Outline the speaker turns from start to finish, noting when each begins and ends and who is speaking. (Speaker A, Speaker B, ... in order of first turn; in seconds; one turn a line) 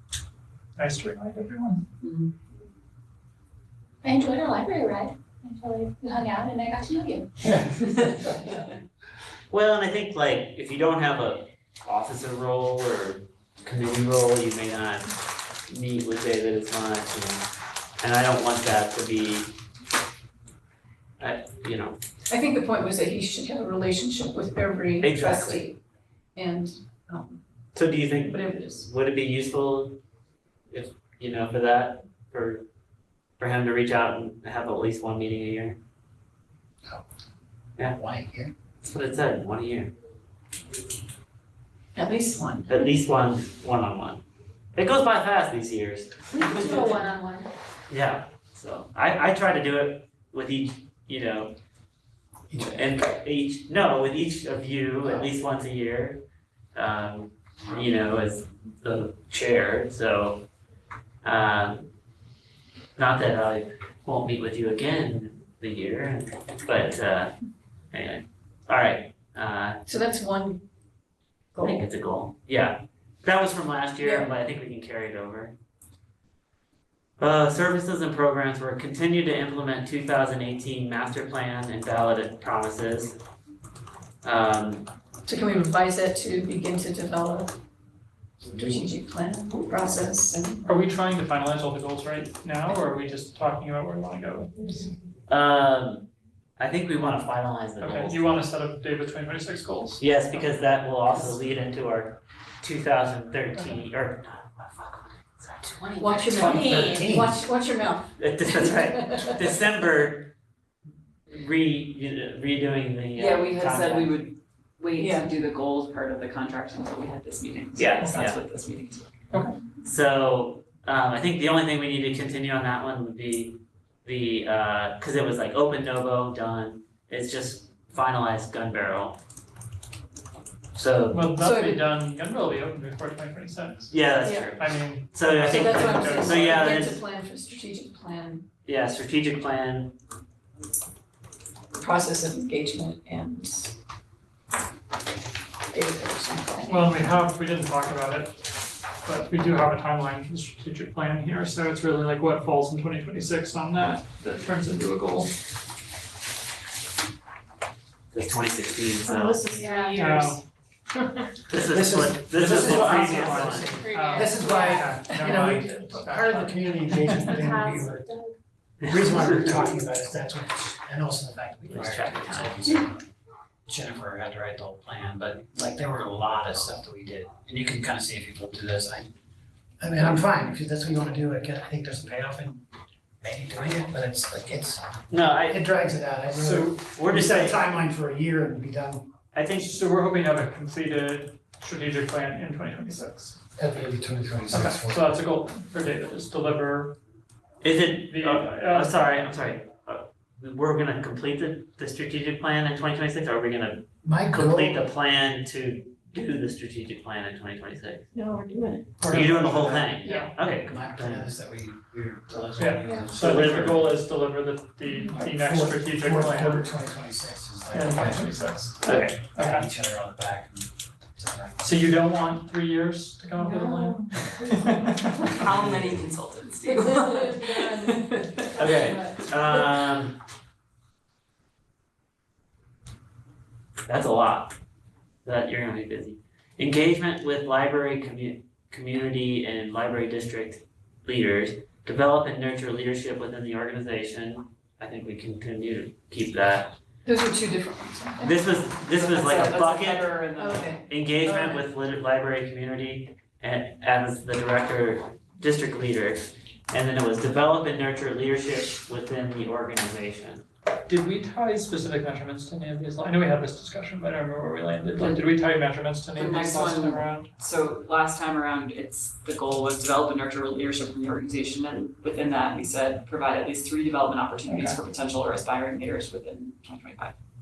Speaker A: 0.8-1.8
Speaker B: 2.0-2.3
Speaker C: 4.0-7.2
Speaker A: 7.5-8.5
Speaker D: 9.5-15.1
Speaker D: 15.7-17.4
Speaker D: 18.0-19.5
Speaker D: 21.2-22.0
Speaker E: 22.3-25.8
Speaker D: 25.0-25.6
Speaker E: 26.4-27.4
Speaker D: 27.7-30.0
Speaker E: 28.1-28.9
Speaker D: 30.7-32.6
Speaker D: 33.4-35.8
Speaker F: 37.9-38.5
Speaker D: 38.8-39.9
Speaker E: 41.9-42.7
Speaker D: 42.7-44.2
Speaker D: 44.8-47.0
Speaker C: 46.4-47.5
Speaker D: 47.9-51.5
Speaker F: 52.5-53.0
Speaker D: 52.6-56.2
Speaker D: 56.7-60.4
Speaker D: 61.2-61.9
Speaker D: 63.0-67.3
Speaker D: 67.9-69.8
Speaker E: 69.8-70.6
Speaker E: 71.5-71.8
Speaker D: 71.6-75.5
Speaker E: 74.0-74.3
Speaker D: 77.2-83.2
Speaker D: 84.2-84.9
Speaker E: 85.2-87.5
Speaker E: 88.5-90.5
Speaker A: 90.6-94.9
Speaker D: 95.3-96.1
Speaker D: 96.6-98.2
Speaker A: 97.8-100.4
Speaker D: 100.0-106.3
Speaker C: 106.0-107.1
Speaker E: 106.0-109.5
Speaker F: 106.3-107.3
Speaker D: 108.2-110.3
Speaker D: 111.3-114.2
Speaker B: 113.1-119.1
Speaker E: 114.9-115.3
Speaker D: 117.8-118.4
Speaker A: 118.0-118.2
Speaker A: 119.3-119.5
Speaker D: 119.8-129.2
Speaker D: 130.7-131.3
Speaker A: 131.1-134.0
Speaker E: 131.4-131.8
Speaker D: 133.9-137.0
Speaker E: 134.2-134.5
Speaker A: 134.6-136.7
Speaker E: 135.4-138.5
Speaker D: 138.7-139.9
Speaker E: 141.8-143.7
Speaker E: 145.7-147.1
Speaker A: 146.7-148.3
Speaker A: 149.0-155.3
Speaker D: 158.1-159.6
Speaker C: 159.5-160.3
Speaker E: 159.5-160.0
Speaker A: 159.9-160.4
Speaker D: 161.5-163.7
Speaker F: 161.6-168.1
Speaker A: 162.3-167.4
Speaker C: 163.7-164.9
Speaker C: 167.2-168.3
Speaker F: 168.8-173.1
Speaker D: 169.1-169.3
Speaker D: 171.7-172.6
Speaker F: 173.7-179.1
Speaker F: 179.8-182.6
Speaker F: 183.2-189.1
Speaker D: 185.1-185.6
Speaker A: 186.3-186.8
Speaker D: 186.9-187.6
Speaker D: 189.3-189.8
Speaker A: 189.6-193.4
Speaker F: 193.6-195.2
Speaker A: 194.5-196.9
Speaker D: 197.6-208.1
Speaker A: 198.1-198.9
Speaker F: 204.0-204.8
Speaker F: 209.0-213.9
Speaker A: 209.0-210.3
Speaker D: 209.1-211.3
Speaker A: 212.6-216.7
Speaker D: 213.1-213.9
Speaker F: 215.1-218.5
Speaker A: 217.7-219.7
Speaker D: 218.8-219.2
Speaker F: 219.3-221.7
Speaker A: 221.6-225.7
Speaker E: 223.4-223.8
Speaker C: 223.4-224.1
Speaker B: 225.4-228.5
Speaker E: 226.6-229.6
Speaker D: 228.6-230.2
Speaker D: 233.9-234.5
Speaker D: 235.2-246.7
Speaker E: 247.0-248.3
Speaker D: 248.2-250.2
Speaker B: 248.9-250.8
Speaker E: 250.4-251.6
Speaker D: 250.9-260.4
Speaker A: 260.9-267.3
Speaker B: 265.0-265.2
Speaker B: 266.1-277.1
Speaker A: 274.4-274.8